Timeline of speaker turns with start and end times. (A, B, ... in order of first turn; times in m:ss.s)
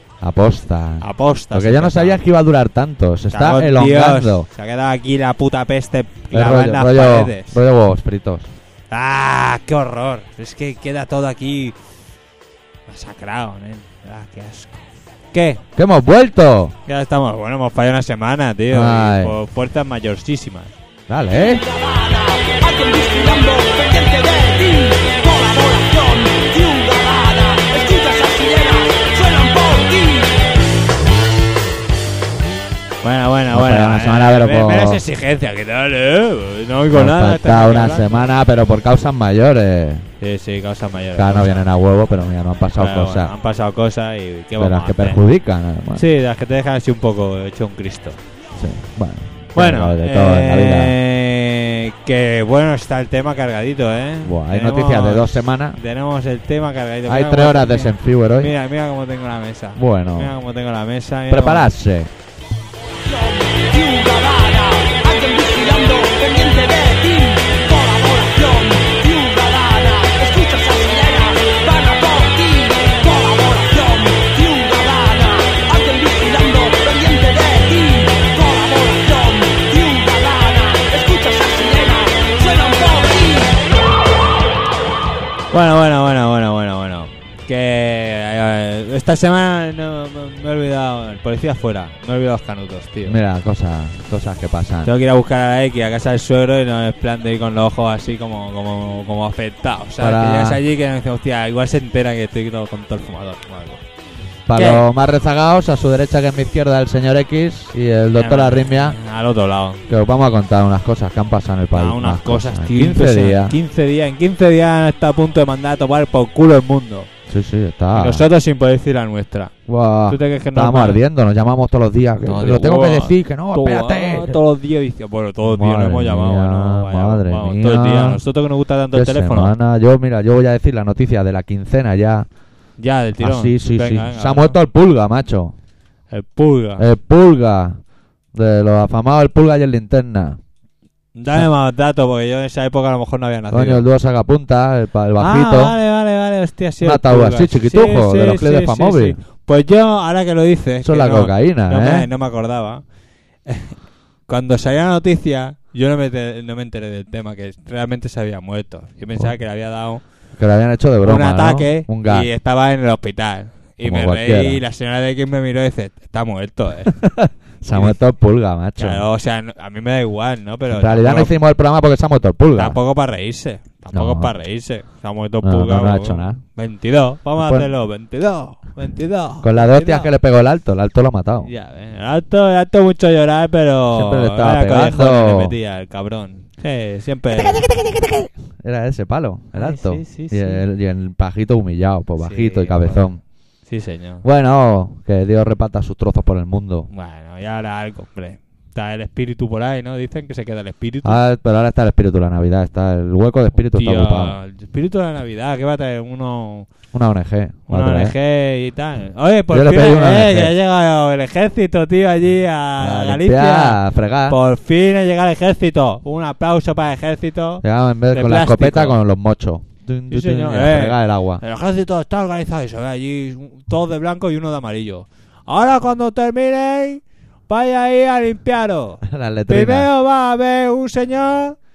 0:00.2-0:04.5 A
0:01.0-0:02.2 B
0:03.3-0:07.6 B
0:06.3-0:08.5 A
0:08.9-0:11.7 B
0:12.9-0:15.6 B
0:15.8-0:16.7 A
0:16.9-0:20.7 B
0:18.7-0:19.4 A
0:21.1-0:21.6 A
0:21.3-0:30.4 C
0:33.0-0:38.3 B
0:33.5-0:35.0 A
0:36.9-0:40.1 A
0:40.2-0:41.6 B
0:41.1-0:43.3 A
0:42.8-0:45.2 B
0:44.6-0:46.0 A
0:45.9-0:48.2 B
0:48.5-0:51.0 A
0:49.6-1:01.7 B
0:54.2-0:55.8 A
0:57.1-0:58.5 A
0:59.8-1:00.3 A
1:01.3-1:02.1 A
1:03.0-1:23.6 C
1:25.5-1:33.2 B
1:33.0-1:34.9 A
1:34.8-1:43.8 B
1:40.0-1:40.6 A
1:44.5-1:49.0 A
1:44.5-1:44.8 B
1:48.2-1:49.8 B
1:49.9-1:53.6 A
1:51.7-1:57.1 B
1:57.3-1:58.2 A
1:57.9-1:59.5 B
1:59.7-2:04.4 A
2:00.1-2:01.0 B
2:02.2-2:09.5 B
2:05.4-2:08.2 A
2:08.9-2:12.3 A
2:12.8-2:14.6 B
2:13.2-2:15.5 A
2:16.1-2:16.8 B
2:16.8-2:17.8 A
2:18.3-2:20.4 A
2:21.2-2:23.9 B
2:23.5-2:25.8 A
2:25.2-2:32.8 B
2:26.8-2:29.2 A
2:30.8-2:32.1 A
2:33.4-2:33.7 B
2:34.3-2:40.0 B
2:40.4-2:42.3 A
2:41.0-2:47.0 B
2:43.8-2:44.6 A
2:47.0-2:49.0 A
2:47.7-2:48.0 B
2:48.8-2:51.4 B
2:50.7-2:52.8 A
2:52.6-3:00.1 B
2:53.9-2:54.3 A
2:55.4-2:56.4 A
2:57.4-2:57.7 A
2:59.4-3:01.5 A
3:01.4-3:07.7 B
3:03.9-3:05.5 A
3:07.4-3:13.2 A
3:09.5-3:10.6 B
3:12.2-3:13.1 B
3:13.7-3:14.2 B
3:14.2-3:16.9 A
3:16.9-3:21.2 B
3:21.0-3:24.4 A
3:23.6-3:26.7 B
3:26.9-3:28.1 A
3:27.7-3:39.0 B
3:29.5-3:30.5 A
3:32.8-3:34.4 A
3:37.6-3:41.4 A
3:40.1-3:51.6 B
3:49.0-3:49.9 A